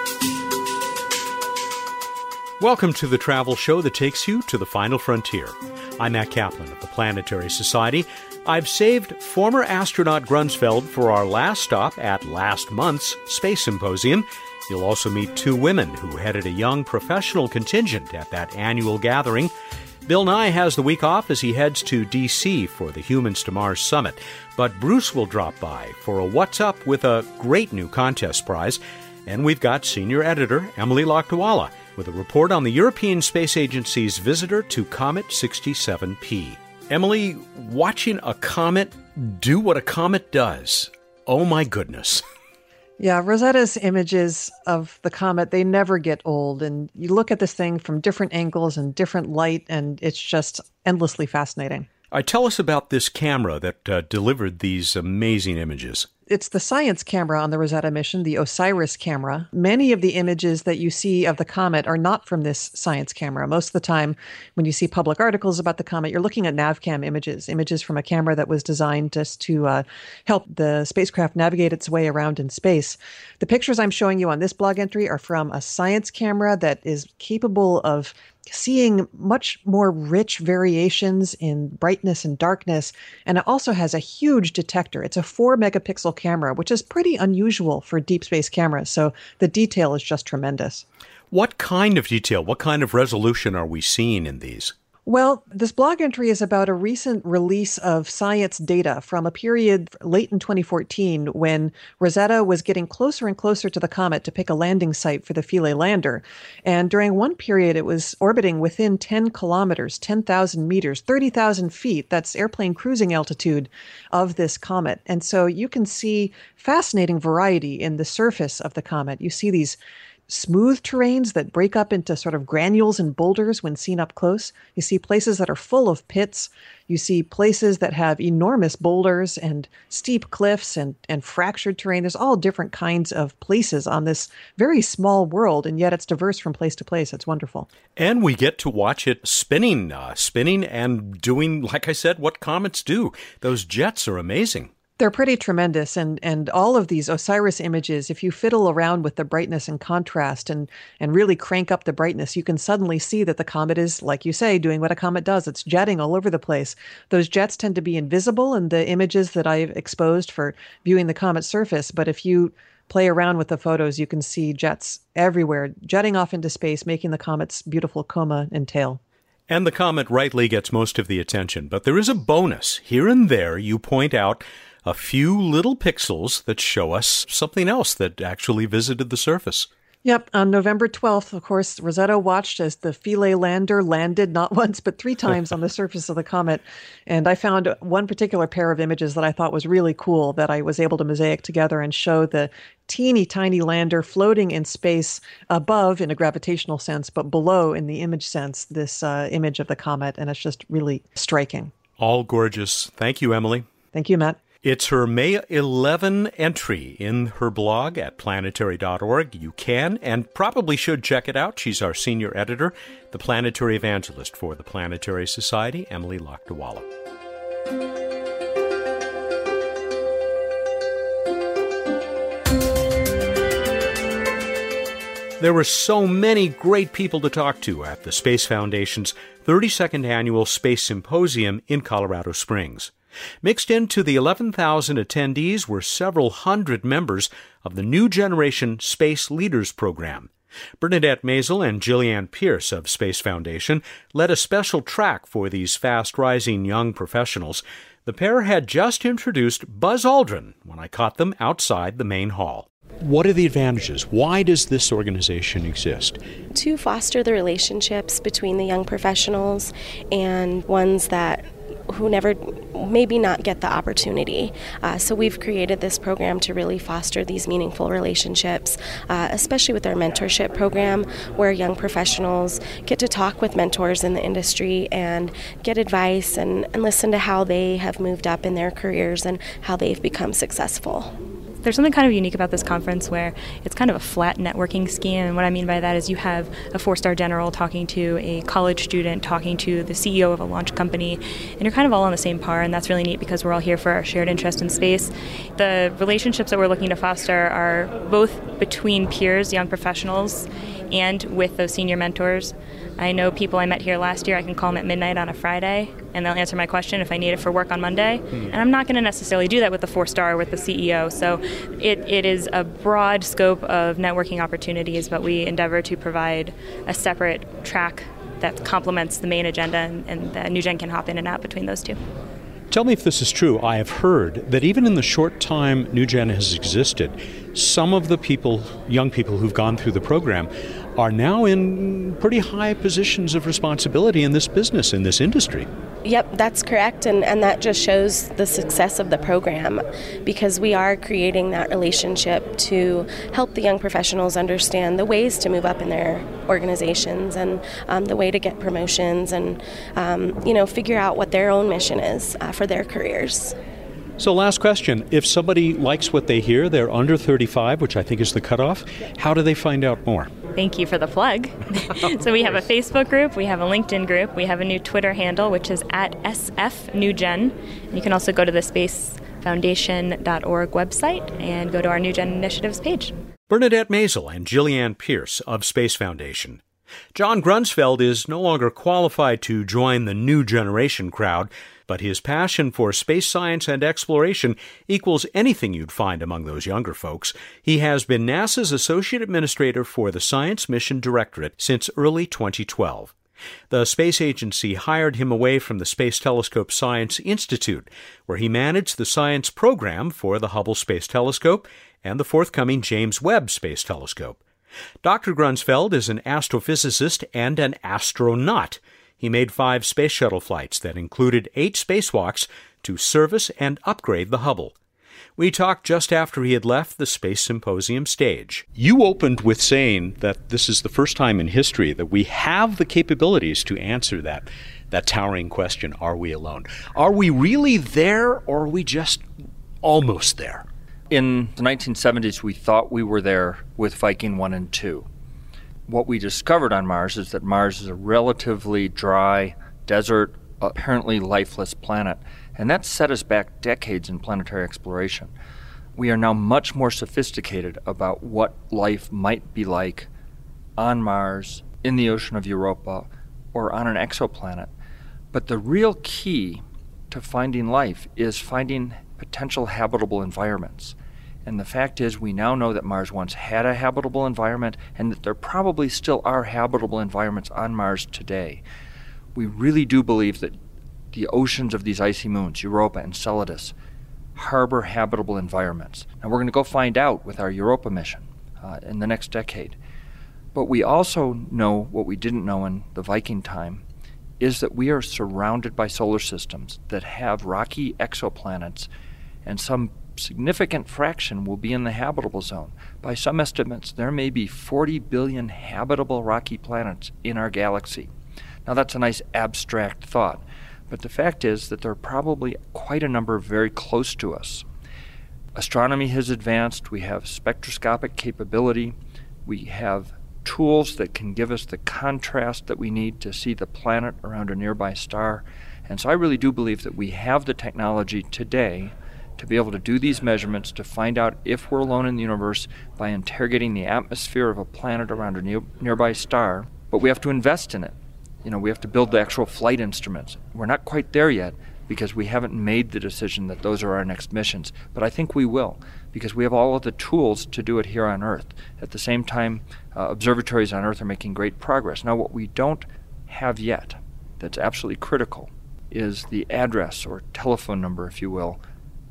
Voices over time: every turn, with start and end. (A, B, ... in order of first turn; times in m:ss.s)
0:02.6-0:19.5 A
0:20.0-0:42.2 A
0:43.0-0:51.9 B
0:52.1-0:56.1 A
0:56.3-1:30.8 B
1:31.3-1:34.7 A
1:35.0-1:59.8 B
2:00.3-2:17.7 B
2:18.0-2:24.7 A
2:25.0-2:49.0 B
2:49.5-2:59.7 A
3:00.0-3:21.7 B
3:22.0-3:23.7 A
3:23.9-3:24.4 B
3:24.6-3:36.9 A
3:45.4-3:52.9 A
3:53.4-4:16.2 A
4:16.5-4:41.1 C
4:41.6-5:22.0 D
5:22.7-5:35.7 A
5:36.0-5:53.5 C
5:54.2-6:00.3 A
6:00.5-6:13.1 D
6:13.5-6:16.6 A
6:17.1-6:33.1 A
6:33.7-6:44.4 A
6:45.0-6:54.7 A
6:55.4-7:09.2 A
7:09.8-7:10.6 A
7:11.1-7:15.1 E
7:15.9-7:25.3 E
7:26.0-7:30.1 E
7:30.8-7:34.7 E
7:35.3-7:48.6 E
7:49.3-7:50.6 E
7:51.1-7:53.7 E
7:54.4-7:59.8 E
8:00.5-8:03.8 E
8:04.4-8:08.9 E
8:09.4-8:18.1 E
8:18.6-8:24.6 E
8:25.5-9:08.6 E